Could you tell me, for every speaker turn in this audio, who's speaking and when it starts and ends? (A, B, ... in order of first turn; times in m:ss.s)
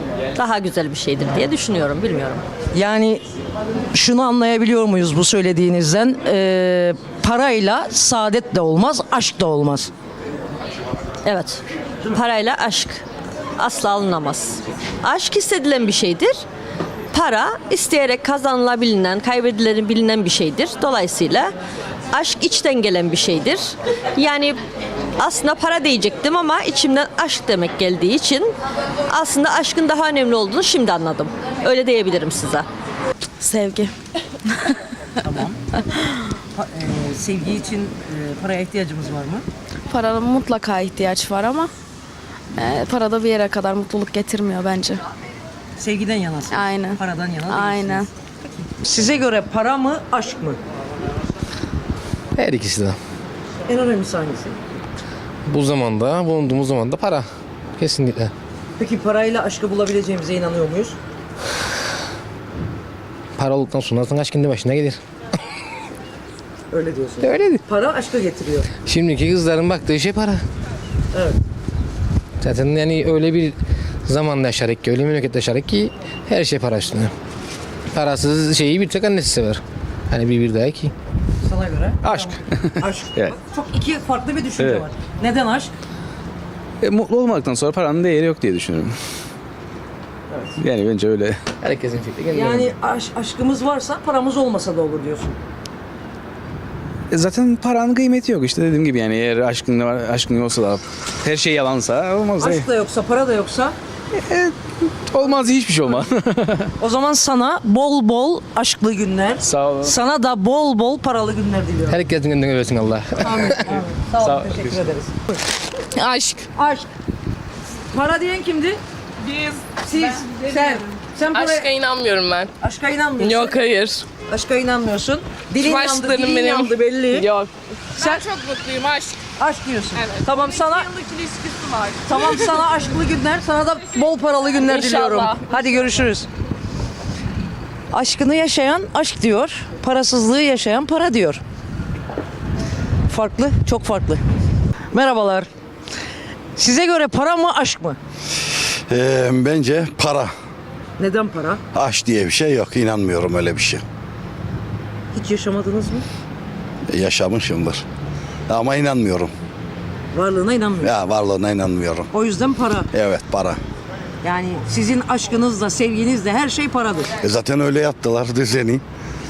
0:00.4-0:02.4 A
0:02.7-0:03.2 B
0:03.9-0:09.9 B
0:11.2-0:13.0 A
0:13.6-0:16.4 A
0:17.1-0:21.5 A
0:22.1-0:24.6 A
0:25.2-0:28.5 A
0:29.1-0:32.7 A
0:33.4-0:33.9 C
0:35.2-0:35.6 B
0:36.5-0:39.4 B
0:39.9-0:41.7 C
0:42.6-0:45.0 C
0:45.8-0:48.0 B
0:46.5-0:48.1 C
0:48.8-0:50.6 B
0:52.3-0:53.0 D
0:53.7-0:54.6 B
0:55.5-0:57.2 D
0:57.8-0:58.3 D
0:58.8-1:01.0 B
1:03.4-1:05.0 D
1:06.7-1:08.7 B
1:07.2-1:07.6 D
1:08.8-1:10.4 D
1:11.1-1:11.4 B
1:12.4-1:17.1 D
1:17.9-1:20.9 D
1:21.4-1:25.7 B
1:22.0-1:22.3 E
1:26.8-1:29.0 E
1:30.6-1:31.4 E
1:31.6-1:32.7 D
1:32.3-1:35.3 B
1:37.1-1:42.6 E
1:42.4-1:43.7 B
1:44.2-1:44.5 E
1:45.1-1:46.4 E
1:46.8-1:52.0 B
1:49.4-1:49.9 E
1:51.9-1:53.6 D
1:53.2-1:55.4 B
1:56.5-1:56.9 B
1:57.9-1:58.8 B
1:59.8-2:01.8 B
2:02.6-2:03.6 B
2:04.2-2:07.3 B
2:05.8-2:06.6 F
2:08.4-2:09.0 F
2:09.4-2:10.9 B
2:12.0-2:16.3 B
2:14.7-2:15.4 F
2:17.9-2:21.4 B
2:23.1-2:24.2 B
2:24.9-2:25.5 B
2:26.6-2:28.0 B
2:28.9-2:30.3 G
2:31.0-2:31.6 B
2:31.7-2:33.8 G
2:35.1-2:36.0 B
2:36.9-2:37.8 G
2:38.5-2:39.3 G
2:40.1-2:40.9 B
2:40.8-2:42.1 G
2:42.1-2:42.9 B
2:42.9-2:43.6 G
2:44.2-2:47.1 B
2:47.2-2:48.8 G